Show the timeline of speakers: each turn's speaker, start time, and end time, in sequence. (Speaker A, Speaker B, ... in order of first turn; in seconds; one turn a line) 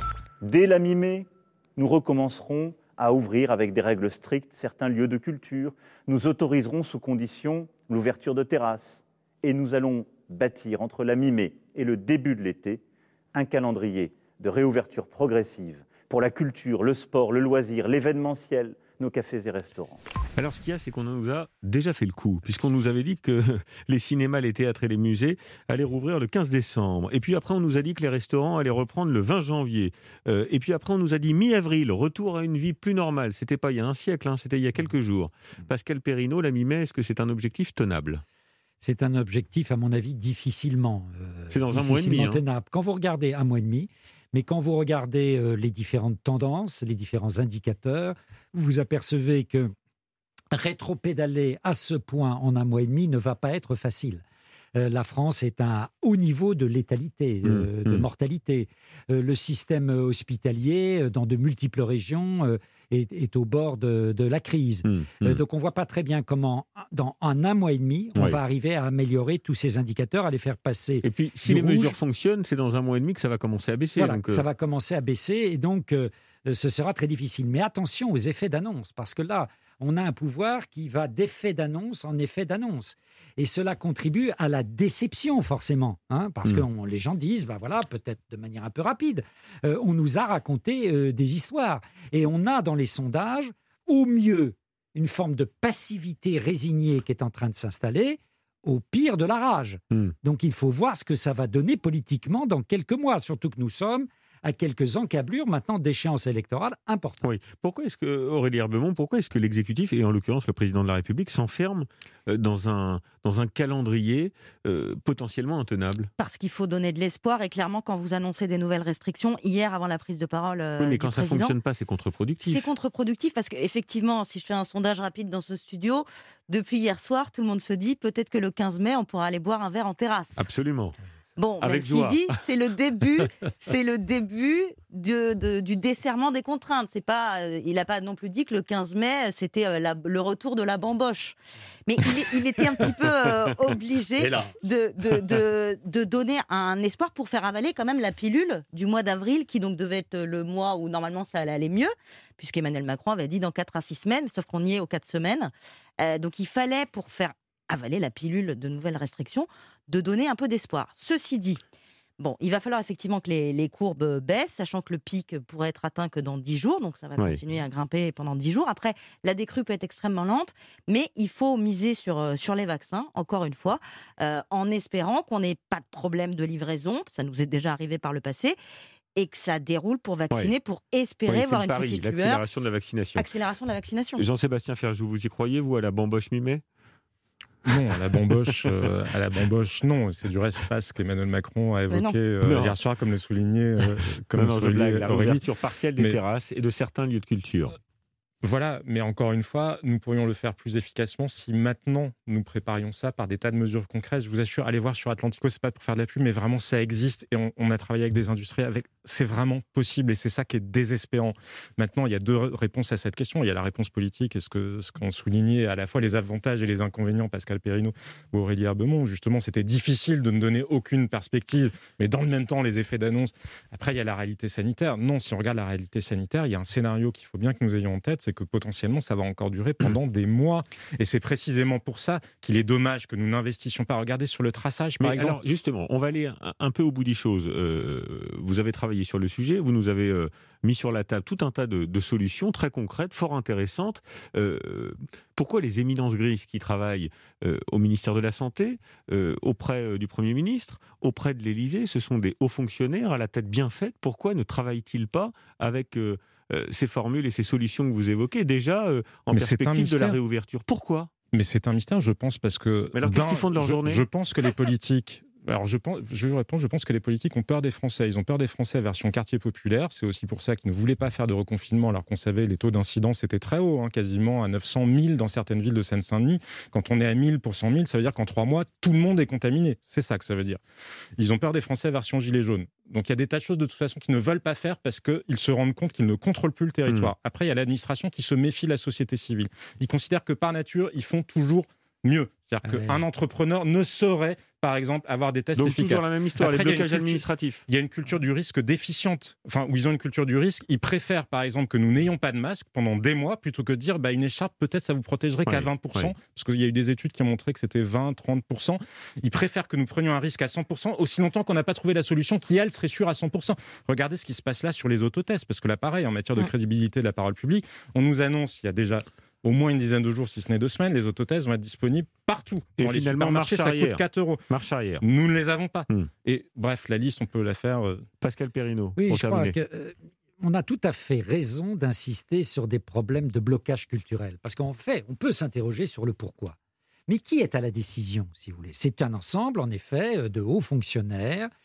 Speaker A: 0.4-12.8
Speaker A: 13.3-20.0
Speaker B: 20.4-38.2
Speaker C: 38.8-49.7
Speaker B: 41.5-42.4
Speaker C: 50.5-54.2
Speaker C: 54.7-72.0
Speaker B: 57.4-58.0
Speaker B: 64.8-65.4
Speaker B: 71.0-74.4
Speaker C: 74.0-107.2
Speaker B: 107.2-116.1
Speaker D: 116.2-121.5
Speaker B: 120.8-122.7
Speaker D: 122.4-130.5
Speaker B: 130.4-130.9
Speaker D: 131.4-161.6
Speaker B: 131.6-132.4
Speaker D: 162.2-178.6
Speaker D: 179.2-182.4
Speaker B: 181.2-183.3
Speaker D: 183.2-184.2
Speaker B: 184.2-186.6
Speaker E: 187.7-195.4
Speaker D: 191.9-192.2
Speaker B: 192.4-192.8
Speaker B: 194.3-197.8
Speaker E: 198.4-235.4
Speaker B: 235.0-261.1
Speaker E: 259.3-260.2
Speaker E: 261.3-280.6
Speaker B: 262.9-264.0
Speaker E: 281.2-324.4
Speaker B: 295.6-297.6
Speaker B: 305.4-306.1
Speaker B: 322.8-325.0
Speaker E: 325.0-328.1
Speaker B: 328.2-329.6
Speaker C: 329.0-336.6
Speaker C: 337.1-341.5